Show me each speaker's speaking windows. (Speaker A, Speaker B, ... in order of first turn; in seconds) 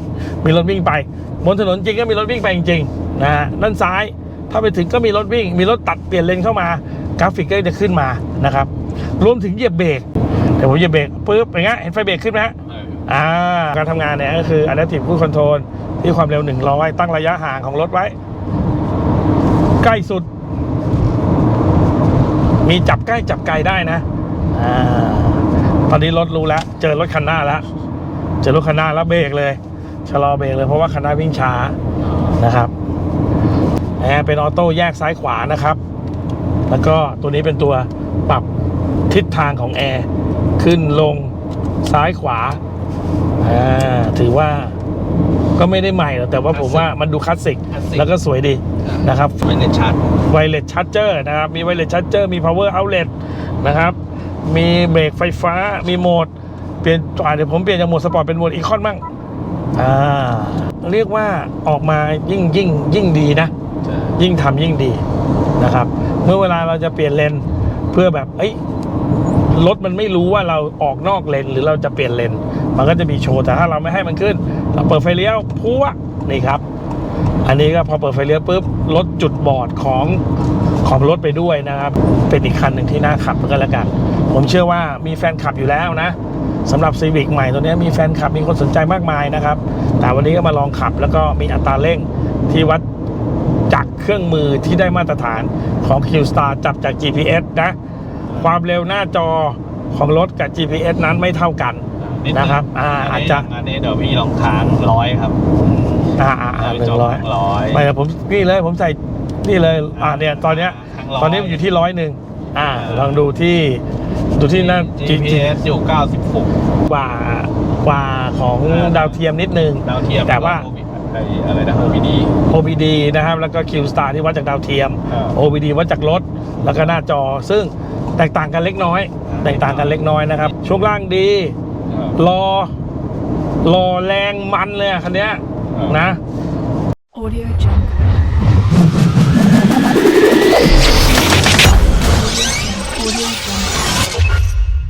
Speaker A: 0.4-10.0, 10.6-12.6, 13.1-18.1, 19.8-20.3, 22.6-27.6, 28.4-31.8, 32.3-32.7, 34.0-35.8, 36.7-38.5, 39.1-42.6, 43.4-44.7, 45.6-49.4, 50.3-56.3, 56.8-59.0, 59.7-63.5, 64.2-65.0, 65.6-68.6, 69.5-76.6, 77.4-80.2, 80.8-92.8, 93.7-97.8, 98.3-103.5, 106.2-113.8, 114.3-115.6, 116.8-120.6, 122.5-131.5, 132.2-132.7, 133.6-136.2
Speaker B: 12.7-13.0, 46.5-46.9, 47.7-48.1, 48.8-50.3, 102.0-107.9, 109.9-111.6, 112.7-113.3, 114.4-116.5, 118.6-119.2, 119.8-122.3, 125.1-125.4, 129.3-130.0, 131.9-132.2
Speaker C: 137.1-138.1, 142.0-143.9